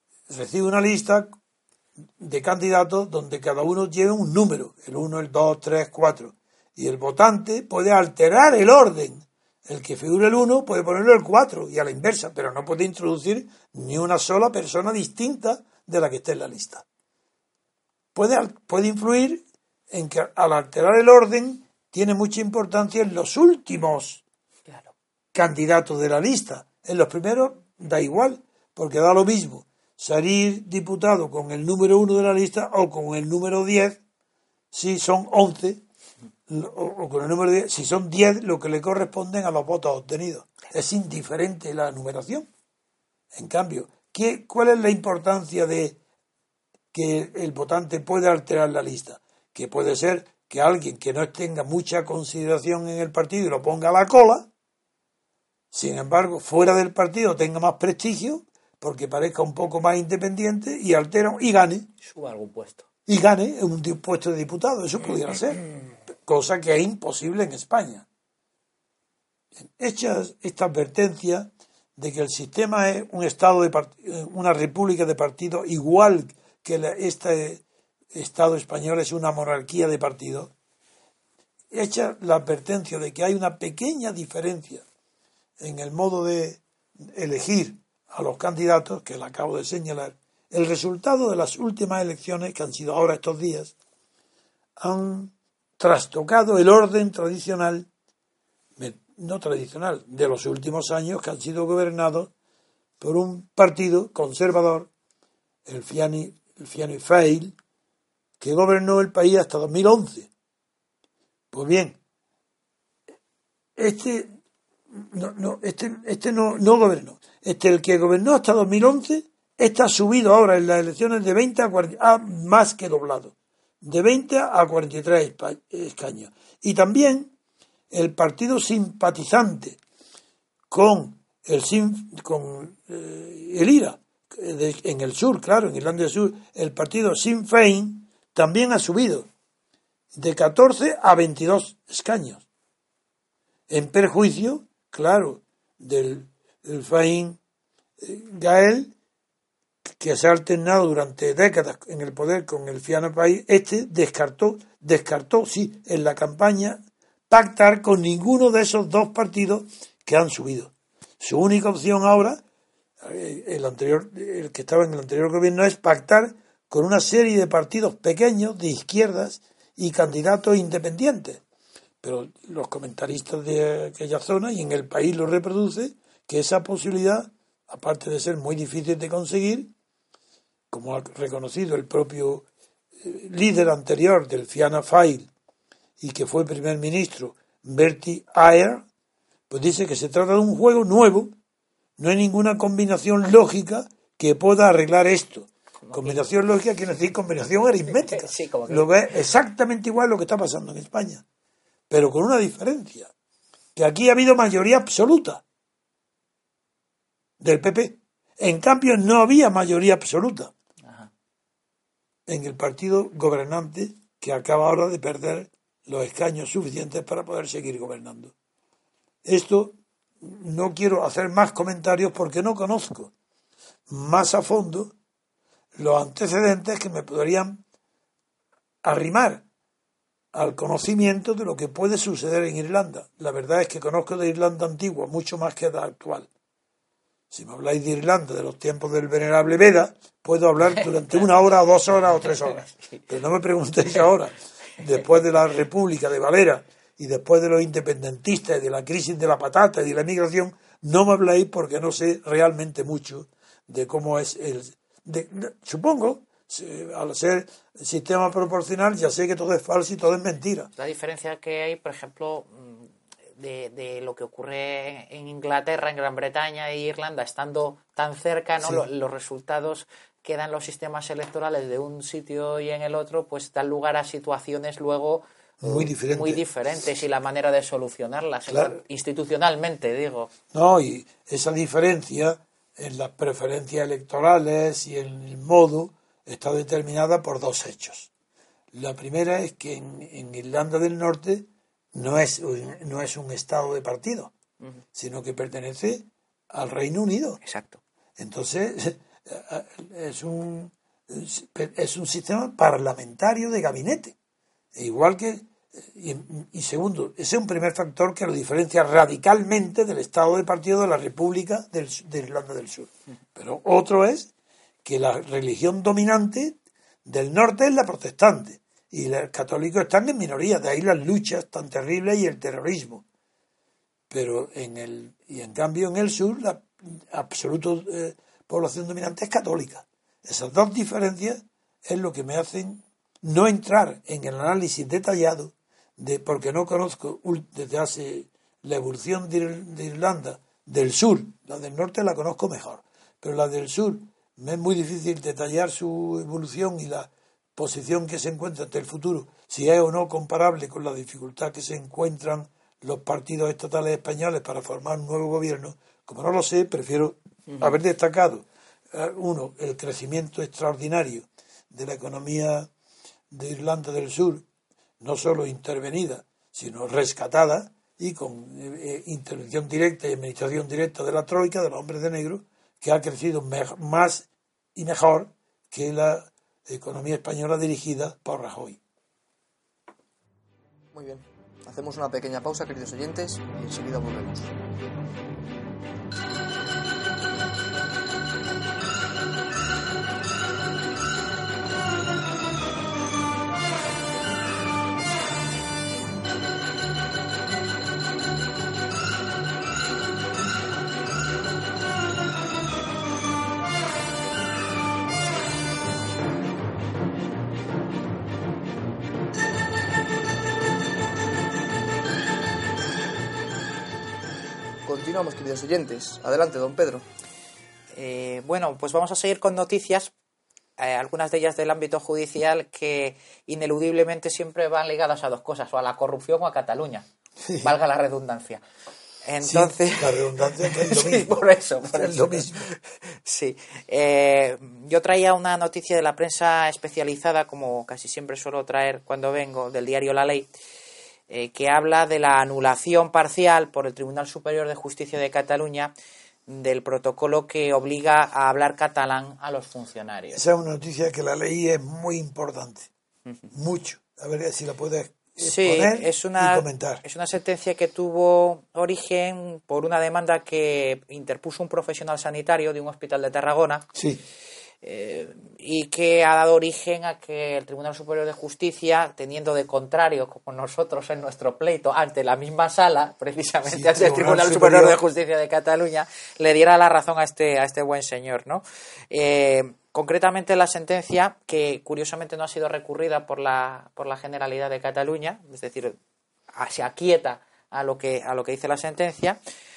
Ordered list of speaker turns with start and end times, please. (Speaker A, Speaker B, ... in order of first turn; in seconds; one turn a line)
Speaker A: 0.3-1.3
Speaker A: 2.2-16.8
Speaker A: 18.1-24.2
Speaker A: 25.3-34.0
Speaker A: 34.7-35.8
Speaker A: 36.5-42.5
Speaker A: 43.3-46.0
Speaker A: 46.9-54.5
Speaker A: 55.7-61.9
Speaker B: 62.0-62.8
Speaker A: 63.0-65.7
Speaker A: 66.2-68.0
Speaker A: 69.6-77.6
Speaker A: 78.1-80.5
Speaker A: 81.7-84.8
Speaker A: 85.6-86.6
Speaker A: 87.1-93.7
Speaker A: 94.8-97.9
Speaker A: 98.8-102.3
Speaker A: 103.0-104.9
Speaker A: 105.7-107.5
Speaker A: 108.4-110.3
Speaker A: 111.5-112.0
Speaker A: 113.8-114.3
Speaker A: 114.9-127.3
Speaker A: 127.9-129.8
Speaker A: 130.7-139.3
Speaker A: 140.1-142.4
Speaker A: 143.7-147.4
Speaker A: 148.0-148.9
Speaker A: 150.0-162.4
Speaker A: 163.0-171.4
Speaker A: 172.0-179.7
Speaker A: 180.7-182.4
Speaker A: 183.0-185.3
Speaker A: 186.0-188.8
Speaker A: 189.5-191.3
Speaker A: 192.0-201.2
Speaker B: 195.8-196.2
Speaker B: 197.8-198.9
Speaker A: 201.9-203.1
Speaker A: 203.8-205.4
Speaker A: 207.4-210.5
Speaker A: 212.3-218.3
Speaker A: 219.2-223.1
Speaker A: 223.9-224.9
Speaker A: 225.8-227.6
Speaker A: 228.8-229.4
Speaker A: 230.3-236.3
Speaker A: 237.3-260.7
Speaker B: 242.6-242.9
Speaker B: 260.8-280.3
Speaker A: 268.6-268.9
Speaker A: 275.6-276.4
Speaker A: 278.5-278.8
Speaker A: 280.5-288.1
Speaker A: 288.7-294.3
Speaker A: 294.9-297.4
Speaker B: 297.4-297.8
Speaker A: 298.2-304.1
Speaker A: 304.7-314.3
Speaker A: 314.8-323.0
Speaker A: 324.1-362.7
Speaker A: 363.3-364.4
Speaker A: 365.0-378.8
Speaker C: 380.9-384.5
Speaker C: 414.9-417.1
Speaker B: 417.9-420.1
Speaker B: 420.8-427.1
Speaker A: 427.4-427.7
Speaker B: 427.6-428.6
Speaker B: 429.2-440.5
Speaker A: 429.4-431.4
Speaker A: 431.9-432.7
Speaker B: 441.3-445.9
Speaker B: 446.5-450.4
Speaker A: 450.3-452.9
Speaker A: 453.5-457.0
Speaker B: 455.4-463.9
Speaker A: 463.9-464.2
Speaker B: 464.8-486.0
Speaker A: 473.6-475.0
Speaker B: 486.5-489.4